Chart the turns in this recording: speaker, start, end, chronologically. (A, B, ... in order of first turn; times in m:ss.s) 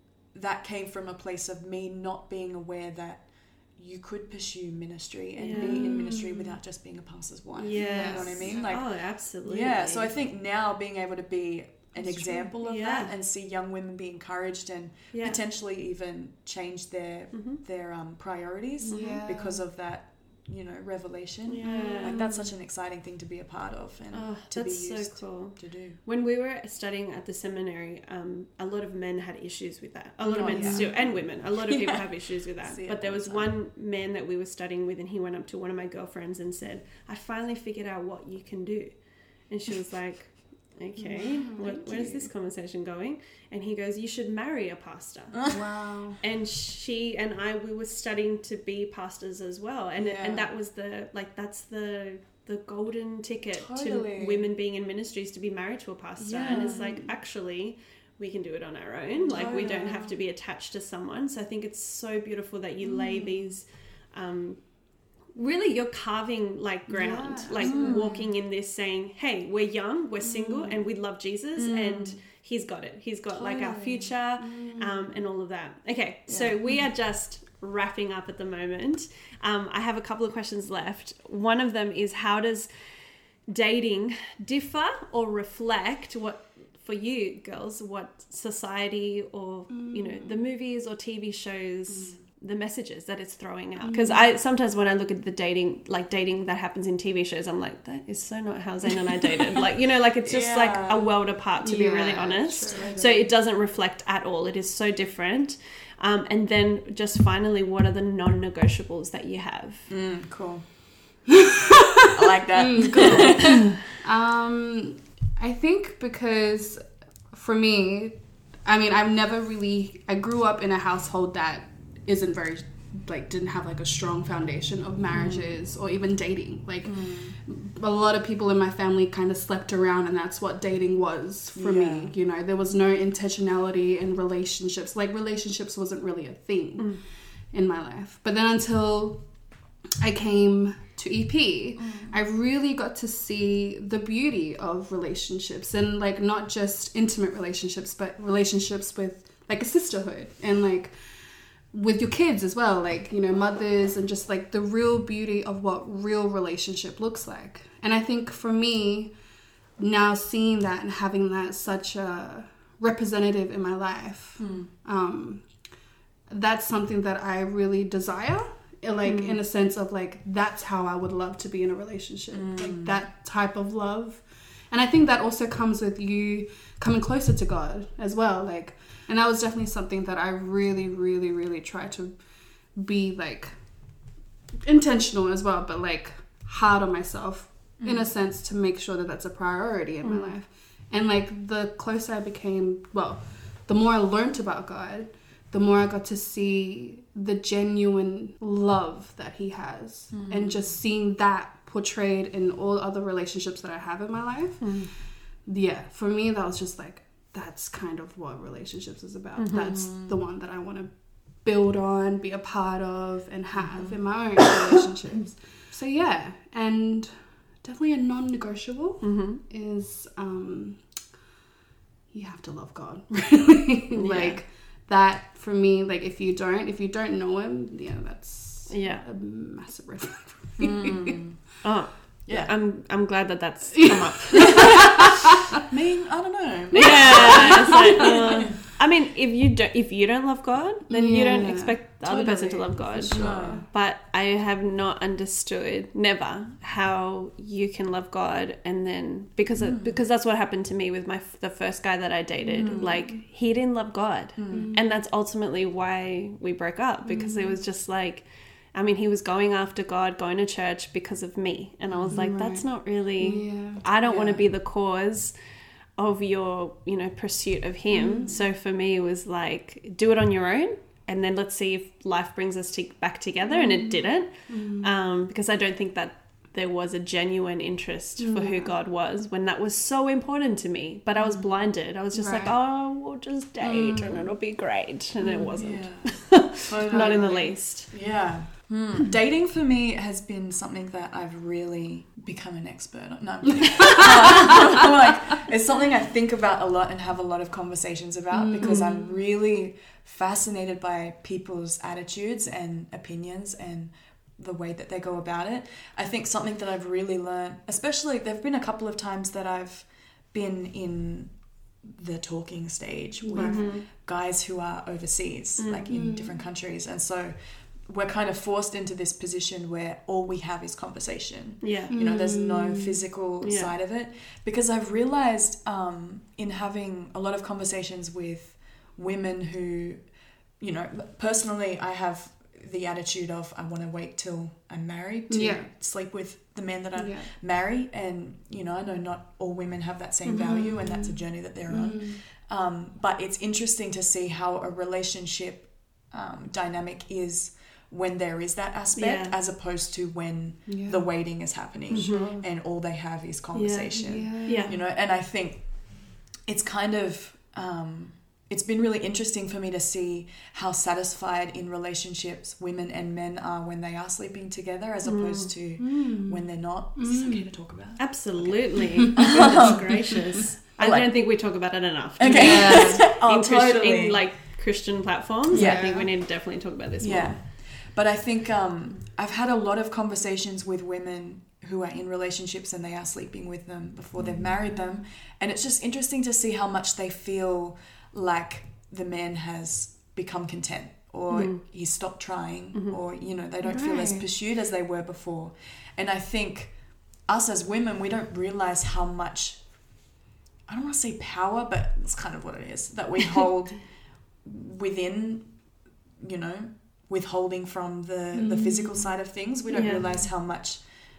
0:00.3-0:26.0 A
0:05.4-0:06.6 B
0:05.4-0:06.0 C
0:07.6-0:10.1 C
0:07.6-0:08.6 B
0:12.0-0:12.5 B
0:12.6-0:13.1 C
0:15.1-0:15.4 C
0:17.3-0:17.6 C
0:18.8-0:19.6 B
0:18.9-0:19.2 C
0:21.5-0:22.4 C
0:21.6-0:22.4 B
0:24.1-0:45.6 C
0:30.2-0:33.6 A
0:30.3-0:31.0 B
0:41.0-0:41.6 B
0:41.2-0:42.3 A
0:45.5-0:46.2 B
0:46.2-1:04.6 C
0:50.0-0:50.5 A
0:53.6-0:54.5 A
0:56.2-0:57.1 B
0:56.3-0:57.1 A
0:59.2-1:00.1 A
0:59.3-1:00.1 B
1:05.4-1:22.7 C
1:06.9-1:08.2 B
1:07.6-1:08.3 A
1:10.2-1:10.8 B
1:11.6-1:12.2 A
1:13.3-1:14.1 A
1:14.4-1:15.2 B
1:16.3-1:16.6 A
1:23.5-1:49.9 C
1:29.7-1:30.4 B
1:31.9-1:32.2 A
1:33.8-1:34.3 B
1:40.2-1:41.1 A
1:41.6-1:43.0 B
1:42.7-1:43.3 A
1:49.9-1:50.7 A
1:51.3-1:56.8 B
1:52.1-1:53.8 A
1:57.3-2:19.3 B
2:05.2-2:05.6 A
2:06.8-2:07.4 A
2:11.6-2:12.1 A
2:16.8-2:17.0 C
2:20.0-2:31.0 B
2:21.8-2:22.2 A
2:31.7-2:39.2 B
2:39.8-2:45.6 B
2:44.4-2:44.7 A
2:46.3-3:02.2 B
2:49.0-2:49.4 C
2:52.3-2:53.0 A
3:02.7-3:03.6 B
3:04.6-3:24.9 B
3:07.8-3:08.1 A
3:10.0-3:10.4 C
3:20.1-3:20.6 A
3:24.6-3:24.9 C
3:25.4-3:40.9 B
3:29.4-3:29.9 C
3:29.9-3:30.2 A
3:33.6-3:34.0 A
3:39.0-3:39.4 C
3:42.1-3:51.2 B
3:43.9-3:44.4 C
3:48.7-3:49.0 C
3:50.6-3:51.6 A
3:51.6-3:55.2 C
3:52.3-3:52.5 A
3:55.7-3:58.6 A
3:56.8-4:25.4 C
3:56.9-3:57.7 B
4:00.9-4:03.6 B
4:02.0-4:03.6 A
4:09.6-4:10.0 A
4:12.4-4:13.2 B
4:12.6-4:13.0 A
4:14.4-4:14.7 A
4:14.5-4:14.8 B
4:17.1-4:17.6 B
4:21.9-4:22.3 A
4:22.1-4:23.8 B
4:24.0-4:24.5 A
4:26.0-4:47.9 C
4:27.9-4:28.4 B
4:33.5-4:34.9 B
4:38.2-4:38.7 B
4:41.2-4:41.5 A
4:42.1-4:42.6 B
4:43.6-4:44.3 B
4:45.2-4:45.7 B
4:45.6-6:11.3 A
4:46.9-4:47.5 B
4:53.8-4:54.5 B
4:58.3-4:59.2 B
4:58.6-4:58.9 C
5:13.2-5:13.7 B
5:13.3-5:13.9 C
5:15.6-5:15.9 C
5:15.9-5:16.4 B
5:21.6-5:21.9 C
5:21.9-5:23.0 B
5:23.4-5:23.7 C
5:35.3-5:35.7 B
5:37.0-5:37.3 B
5:40.2-5:40.8 C
5:40.4-5:42.2 B
5:49.0-5:49.3 C
5:50.7-5:51.0 B
5:51.9-5:52.4 C
5:51.9-5:52.4 B
5:53.5-5:54.8 C
5:53.9-5:54.8 B
6:05.0-6:05.6 C
6:05.8-6:07.5 B
6:08.0-6:17.4 C
6:12.2-6:14.2 A
6:12.3-6:13.0 B
6:15.5-6:16.1 A
6:15.5-6:16.1 B
6:17.0-6:39.7 A
6:24.2-6:24.7 B
6:31.3-6:31.6 C
6:33.6-6:34.3 B
6:40.7-6:45.6 A
6:46.2-6:50.9 A
6:48.3-6:49.1 B
6:49.7-6:50.1 C